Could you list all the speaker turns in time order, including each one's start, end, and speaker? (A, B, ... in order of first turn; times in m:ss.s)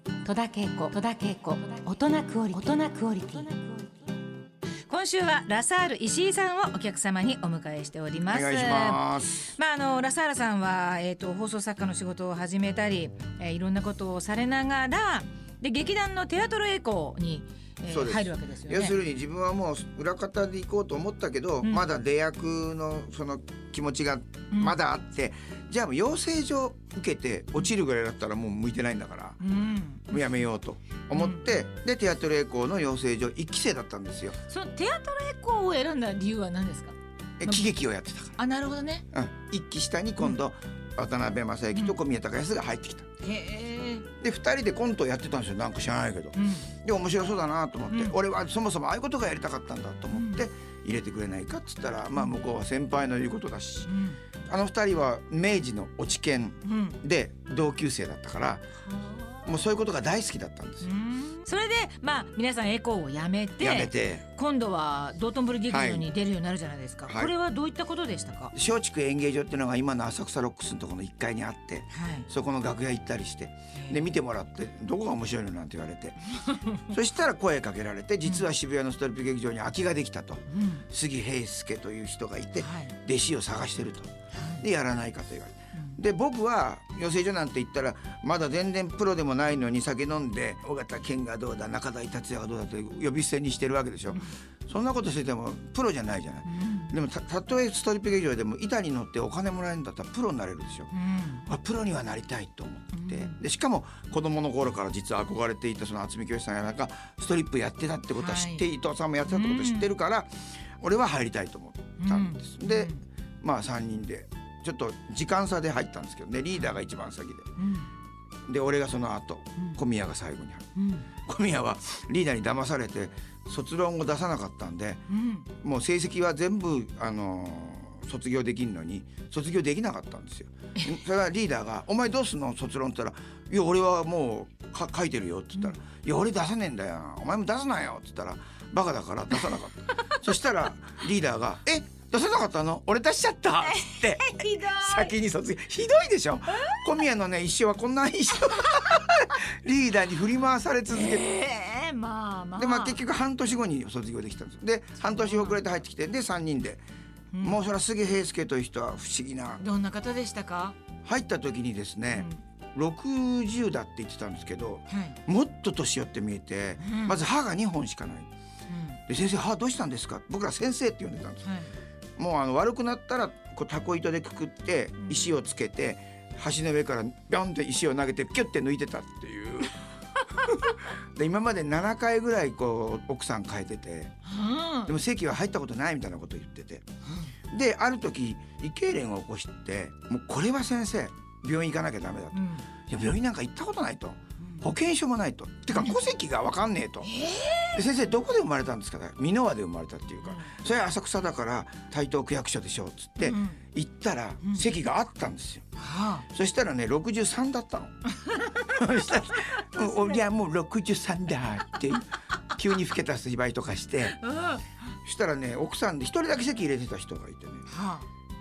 0:00.2-0:03.9 A
0:04.9-0:19.0 B
0:08.3-0:09.5 C
0:17.9-0:29.4 C
0:21.6-0:21.9 B
0:24.5-0:24.8 B
0:29.4-0:30.3 B
0:30.1-0:34.4 C
0:31.1-0:31.4 B
0:34.5-0:37.7 B
0:37.4-0:38.4 C
0:38.4-0:39.0 B
0:39.1-0:43.1 C
0:43.2-0:44.1 B
0:44.2-0:53.9 C
0:46.3-0:46.7 B
0:47.9-0:48.1 B
0:50.1-0:50.4 B
0:53.8-0:54.2 B
0:54.5-0:58.6 C
0:56.6-0:57.0 B
0:58.8-0:59.5 B
0:59.4-1:00.9 C
1:00.8-1:08.5 B
1:03.6-1:04.2 C
1:05.7-1:06.1 C
1:07.1-1:07.3 C
1:08.5-1:16.3 C
1:11.9-1:12.3 B
1:13.7-1:14.1 B
1:16.4-1:16.7 B
1:16.8-1:40.9 C
1:20.5-1:20.8 B
1:22.6-1:23.0 B
1:24.3-1:24.6 B
1:36.4-1:36.9 B
1:40.9-1:41.5 B
1:41.4-1:57.5 C
1:42.9-1:43.4 B
1:48.1-1:48.7 B
1:49.2-1:49.9 B
1:52.0-1:53.0 B
1:57.6-1:57.9 B
1:58.5-2:05.0 C
2:00.7-2:01.0 B
2:05.1-2:05.5 B
2:05.6-2:31.3 C
2:23.6-2:25.1 B
2:30.9-2:33.0 B
2:32.6-2:36.8 C
2:35.0-2:35.6 B
2:37.3-2:37.6 B
2:37.4-2:39.6 C
2:39.6-2:40.8 B
2:41.0-2:48.3 C
2:42.1-2:42.4 B
2:44.9-2:45.2 B
2:46.8-2:47.2 B
2:48.7-2:49.0 B
2:49.1-2:51.4 C
2:51.4-2:51.7 B
2:52.2-3:04.1 C
3:04.2-3:05.0 B
3:04.8-3:06.8 C
3:07.5-3:17.1 C
3:12.3-3:12.7 B
3:14.4-3:14.7 B
3:15.7-3:16.0 B
3:17.0-3:17.8 B
3:17.7-3:25.6 C
3:20.2-3:20.6 B
3:23.2-3:23.6 B
3:25.8-3:26.2 B
3:26.3-3:27.9 C
3:28.1-3:28.8 B
3:28.6-3:34.2 C
3:29.5-3:30.2 B
3:34.1-3:34.8 B
3:35.0-3:37.7 C
3:37.7-3:38.0 B